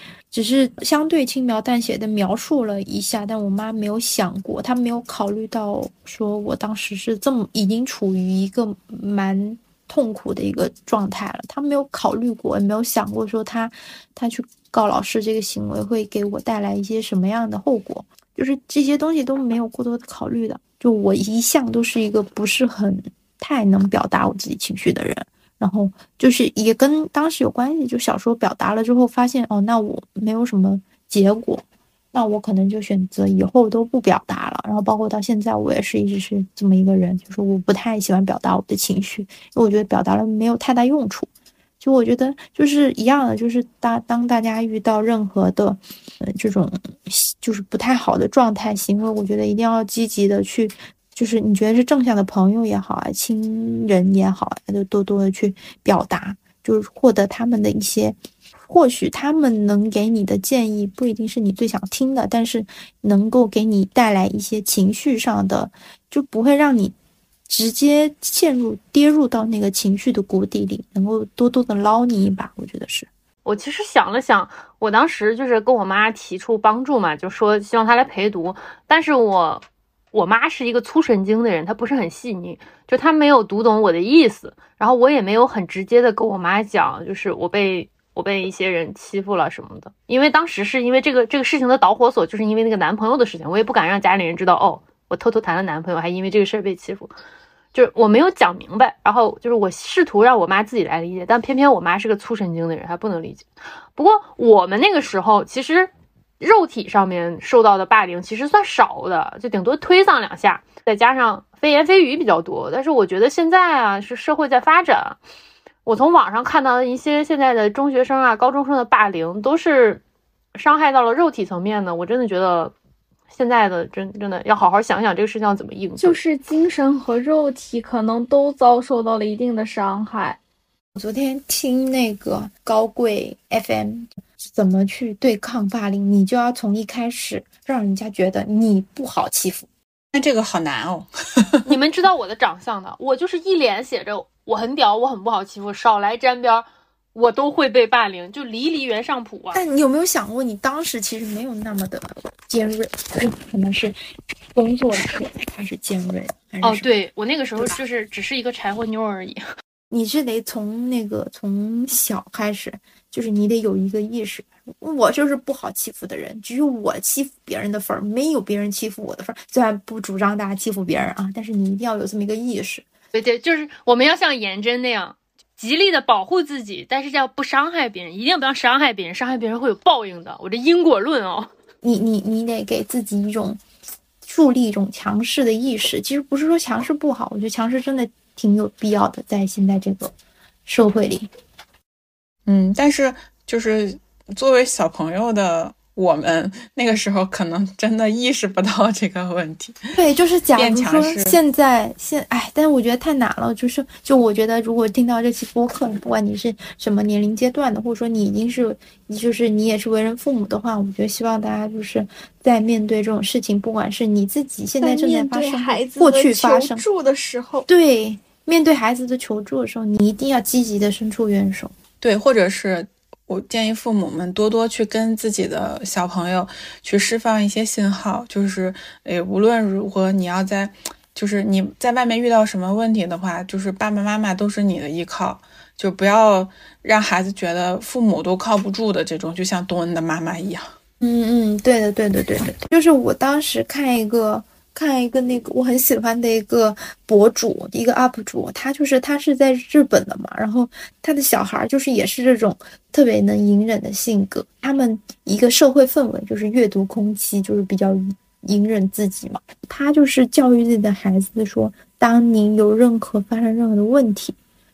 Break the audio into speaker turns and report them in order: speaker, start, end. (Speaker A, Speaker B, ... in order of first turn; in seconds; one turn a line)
Speaker A: 0.3-41.3
Speaker A: 41.8-58.1
Speaker A: 58.7-66.9
Speaker A: 67.5-73.1
Speaker B: 73.4-97.1
Speaker B: 97.7-115.2
Speaker B: 115.8-120.0
Speaker B: 120.5-122.7
Speaker B: 123.3-126.2
Speaker C: 126.0-130.4
Speaker A: 130.9-139.7
Speaker D: 140.1-141.8
Speaker B: 141.6-149.6
Speaker A: 149.5-153.9
Speaker A: 154.5-156.9
Speaker B: 156.6-159.4
Speaker A: 159.9-172.8
Speaker B: 173.1-181.5
Speaker A: 181.8-183.6
Speaker A: 184.2-190.1
Speaker A: 190.7-191.3
Speaker D: 192.5-199.8
Speaker A: 199.9-216.8
Speaker D: 200.5-201.4
Speaker C: 214.8-217.7
Speaker A: 217.7-221.7
Speaker D: 222.0-240.7
Speaker A: 241.0-264.4